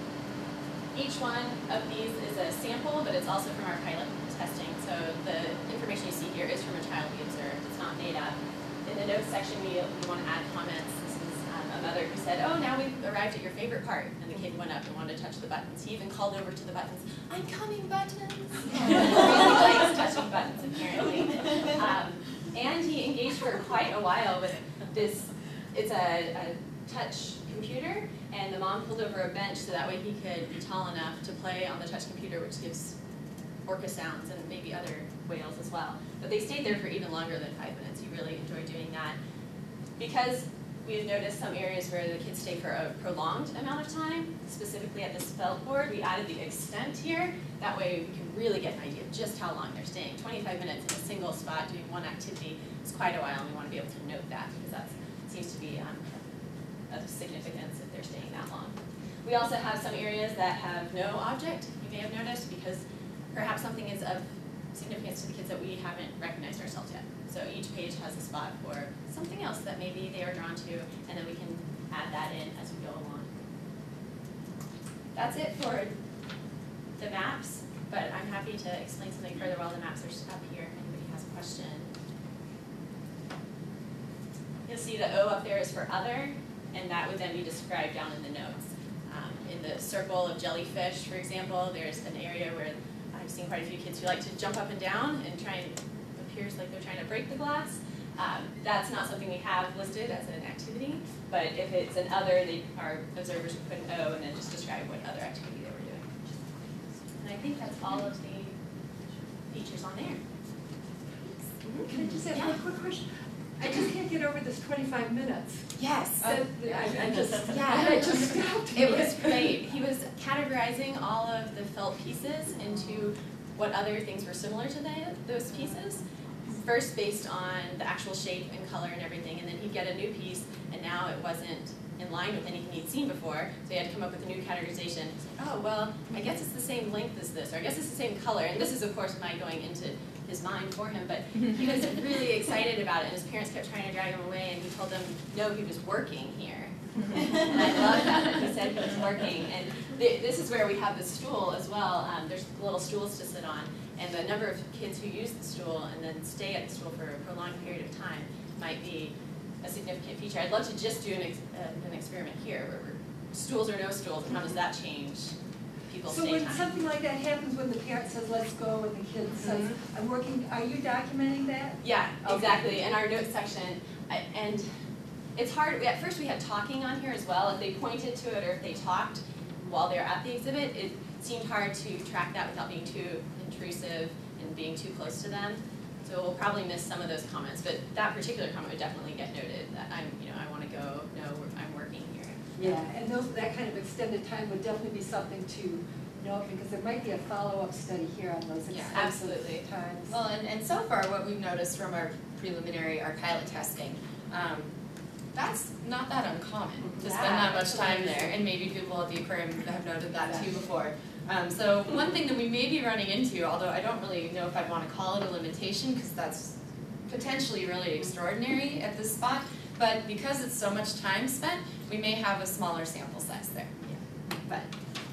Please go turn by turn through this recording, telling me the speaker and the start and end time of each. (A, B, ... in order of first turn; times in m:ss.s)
0:00.9-0:33.0 A
0:33.7-0:39.2 A
0:40.0-0:56.3 A
0:56.9-1:13.3 A
1:15.2-1:16.0 A
1:17.0-1:21.9 A
1:24.7-1:46.1 A
1:47.2-1:48.6 A
1:49.5-1:50.2 A
1:51.6-1:52.6 A
1:51.8-1:53.1 B
1:53.6-1:55.7 B
1:55.8-1:56.9 A
1:56.2-1:59.6 B
1:57.4-2:06.0 A
2:06.6-2:45.3 A
2:45.9-2:46.7 A
2:46.1-2:52.8 B
2:51.8-2:54.7 A
2:55.4-3:12.8 A
3:12.6-3:20.2 B
3:18.7-3:19.0 C
3:18.9-3:19.6 A
3:20.1-3:24.7 C
3:25.3-3:43.8 C
3:26.9-3:28.3 A